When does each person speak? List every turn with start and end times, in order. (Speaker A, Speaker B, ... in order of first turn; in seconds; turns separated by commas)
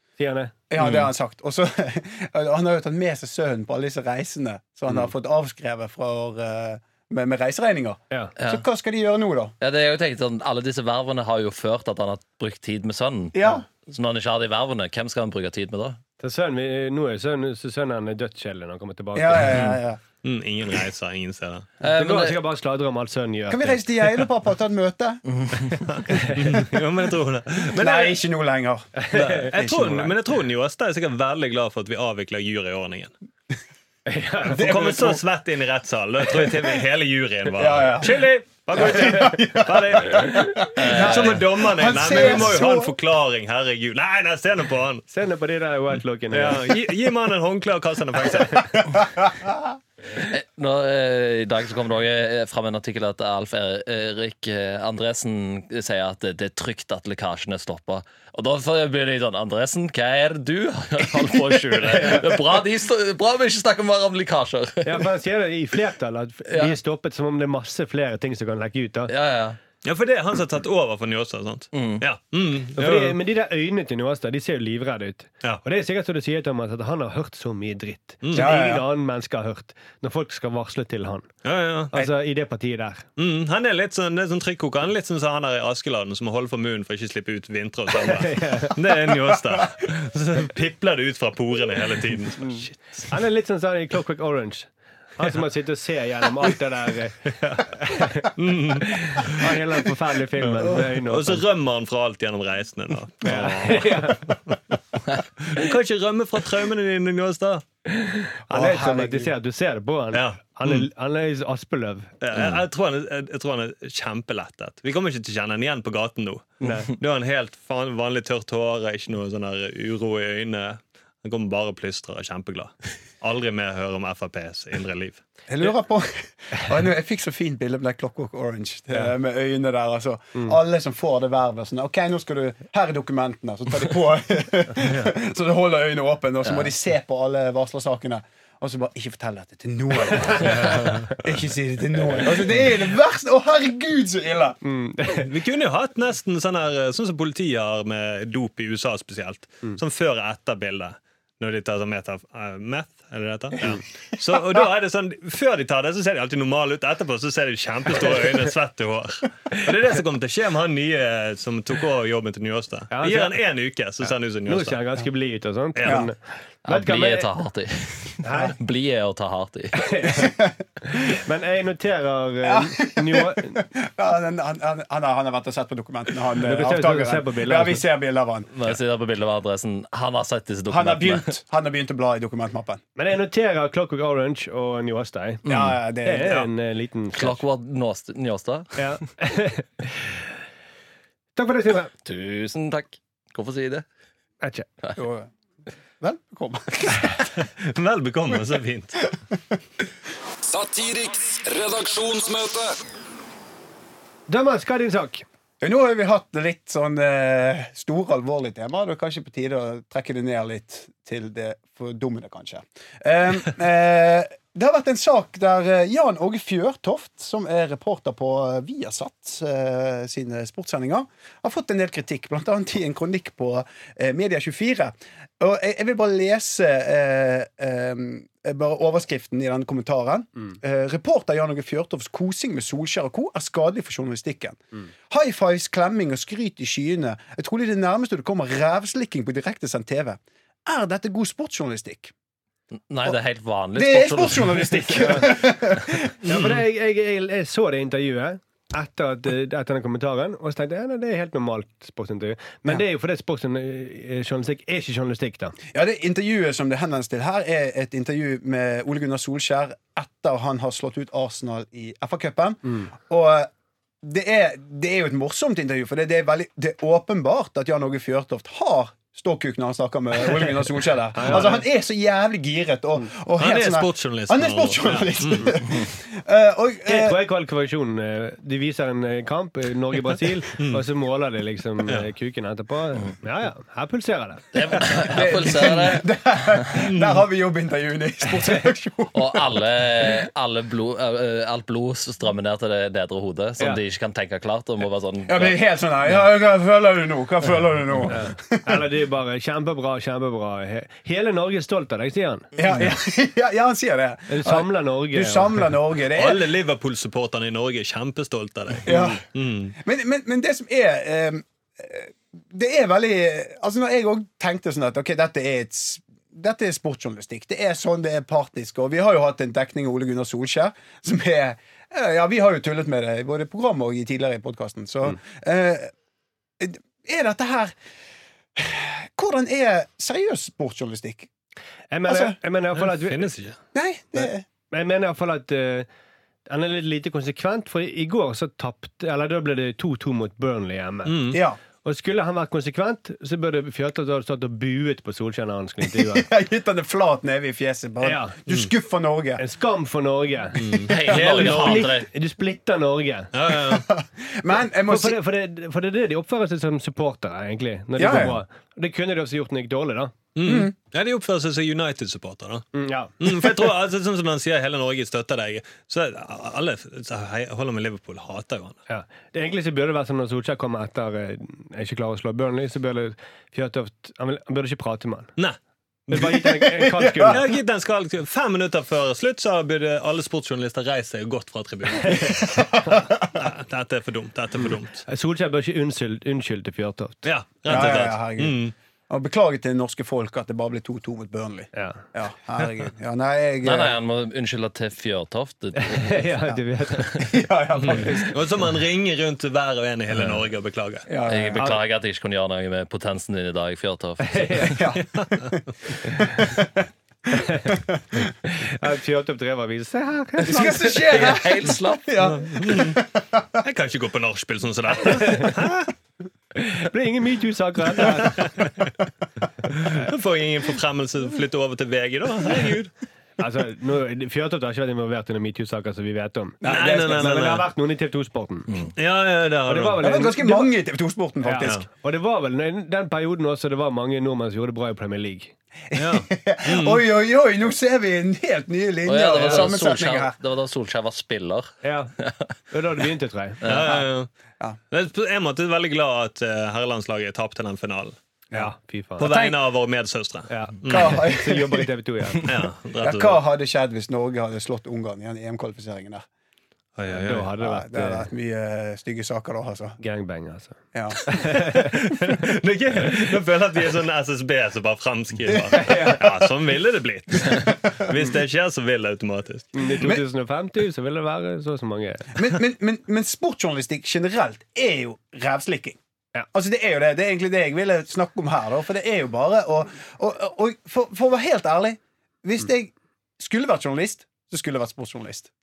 Speaker A: 0.2-0.5, Speaker B: 0.7-9.6, Speaker C: 0.8-1.1, Speaker C: 9.6-16.0, Speaker B: 13.3-13.7, Speaker A: 16.2-19.6, Speaker B: 19.1-20.0, Speaker D: 20.2-21.7, Speaker C: 21.8-22.4, Speaker A: 21.9-23.9, Speaker B: 23.5-25.2, Speaker C: 25.3-25.8, Speaker D: 25.9-28.2, Speaker B: 27.7-30.1, Speaker A: 29.1-29.3, Speaker D: 29.1-33.1, Speaker A: 34.1-34.8, Speaker D: 34.5-45.1, Speaker B: 34.5-35.2, Speaker B: 37.5-42.9, Speaker C: 40.8-41.5, Speaker A: 45.1-46.7, Speaker D: 46.3-49.0, Speaker C: 50.2-65.1, Speaker A: 61.9-62.3, Speaker A: 64.8-69.1, Speaker C: 66.5-66.8, Speaker C: 69.1-69.6, Speaker D: 69.8-73.2, Speaker C: 71.7-72.0, Speaker A: 72.8-81.3, Speaker D: 78.2-78.5, Speaker B: 78.3-78.8, Speaker D: 81.4-81.9, Speaker A: 81.9-83.0, Speaker D: 83.2-93.1, Speaker A: 88.1-88.8, Speaker A: 93.1-101.5, Speaker D: 98.3-99.6, Speaker D: 100.6-104.8, Speaker A: 103.2-104.2, Speaker D: 105.4-107.7, Speaker A: 107.9-112.1, Speaker B: 108.5-109.3, Speaker D: 110.1-110.9, Speaker D: 112.2-125.2, Speaker C: 112.3-112.6, Speaker A: 116.6-116.9, Speaker B: 125.5-144.6, Speaker D: 140.6-141.1, Speaker A: 144.6-145.3, Speaker D: 145.2-165.0, Speaker A: 162.9-163.4, Speaker A: 164.0-167.3, Speaker D: 165.8-166.1, Speaker B: 165.8-166.1, Speaker C: 166.7-170.0, Speaker A: 168.2-168.6, Speaker A: 169.7-173.6, Speaker B: 170.1-170.5, Speaker B: 172.4-178.5, Speaker A: 176.4-177.8, Speaker C: 178.5-181.3, Speaker B: 180.7-182.8, Speaker A: 183.0-185.5, Speaker C: 185.4-185.7, Speaker B: 185.4-186.5, Speaker A: 186.0-187.4, Speaker C: 187.1-188.9, Speaker A: 188.8-190.2, Speaker A: 191.4-191.9, Speaker C: 192.0-193.8, Speaker A: 194.4-194.7, Speaker B: 195.0-195.3, Speaker B: 196.0-197.2, Speaker D: 197.4-199.1, Speaker E: 200.4-202.8, Speaker A: 204.3-205.2, Speaker B: 205.6-242.1, Speaker C: 242.9-245.2, Speaker B: 243.8-246.1, Speaker D: 246.2-246.6, Speaker A: 246.2-255.6, Speaker B: 255.7-263.5, Speaker B: 264.0-277.2, Speaker A: 271.1-271.6, Speaker D: 273.4-275.6, Speaker A: 276.9-284.9, Speaker D: 280.6-280.9, Speaker C: 284.5-286.6, Speaker B: 284.9-289.6, Speaker D: 286.8-287.2, Speaker C: 289.1-295.6, Speaker B: 295.3-298.9, Speaker A: 298.1-302.5, Speaker B: 302.6-306.5, Speaker A: 304.3-305.7, Speaker D: 306.1-309.8, Speaker B: 308.9-309.2, Speaker A: 308.9-309.2, Speaker B: 309.8-325.9, Speaker B: 326.6-327.7, Speaker B: 328.6-331.3, Speaker A: 331.9-333.3, Speaker B: 332.1-332.4, Speaker D: 332.8-333.6, Speaker B: 333.7-334.4, Speaker A: 334.7-335.9, Speaker A: 336.5-341.2, Speaker D: 341.1-341.4, Speaker B: 341.3-341.6, Speaker A: 341.8-346.3, Speaker B: 345.8-349.4, Speaker A: 348.0-348.3, Speaker A: 349.4-353.3, Speaker D: 350.6-352.0, Speaker C: 350.9-352.1, Speaker D: 353.3-353.9, Speaker B: 353.7-355.2, Speaker A: 354.9-360.1, Speaker B: 358.0-358.4, Speaker D: 360.4-362.7, Speaker B: 360.4-360.7, Speaker A: 362.7-363.2, Speaker D: 363.2-368.8, Speaker A: 368.9-375.3, Speaker D: 376.1-376.4, Speaker A: 376.1-377.4, Speaker B: 376.1-377.4, Speaker D: 377.3-385.0, Speaker A: 382.1-382.3, Speaker B: 382.5-383.2, Speaker A: 385.1-387.8, Speaker D: 387.2-388.7, Speaker B: 387.7-394.0, Speaker A: 391.7-392.0, Speaker C: 393.6-396.5, Speaker A: 395.8-397.2, Speaker B: 397.0-398.4, Speaker D: 397.8-401.1, Speaker C: 400.1-400.4, Speaker B: 401.1-401.8, Speaker C: 401.2-404.9, Speaker A: 404.2-404.9, Speaker B: 404.6-408.2, Speaker D: 405.2-405.5, Speaker A: 406.1-406.5, Speaker A: 407.3-407.8, Speaker A: 408.4-411.3, Speaker B: 410.4-413.6, Speaker C: 411.1-412.1, Speaker D: 412.4-413.0, Speaker D: 413.6-415.9, Speaker A: 415.3-415.5, Speaker A: 416.6-418.5, Speaker D: 418.1-418.9, Speaker D: 419.7-422.9, Speaker A: 423.4-428.8, Speaker D: 426.6-427.7, Speaker B: 426.7-427.0, Speaker D: 429.0-430.1, Speaker A: 429.7-430.7, Speaker B: 430.0-431.9, Speaker A: 431.4-435.5, Speaker B: 435.9-440.4, Speaker D: 435.9-437.0, Speaker C: 439.1-442.6, Speaker A: 441.8-442.1, Speaker A: 442.7-443.6, Speaker C: 443.6-444.0, Speaker D: 443.6-444.3, Speaker D: 444.9-448.2, Speaker A: 448.5-449.3, Speaker D: 449.2-451.3, Speaker B: 449.2-449.6, Speaker A: 450.5-452.5, Speaker B: 450.9-451.9, Speaker D: 452.4-453.4, Speaker B: 453.0-456.2, Speaker D: 457.0-457.5, Speaker A: 457.1-458.3, Speaker B: 457.6-460.0, Speaker A: 460.0-461.9, Speaker B: 460.9-461.3, Speaker D: 461.8-469.7, Speaker B: 465.7-466.5, Speaker A: 465.8-466.2, Speaker A: 469.7-472.4, Speaker B: 470.0-470.2, Speaker B: 472.4-476.0, Speaker B: 476.5-485.5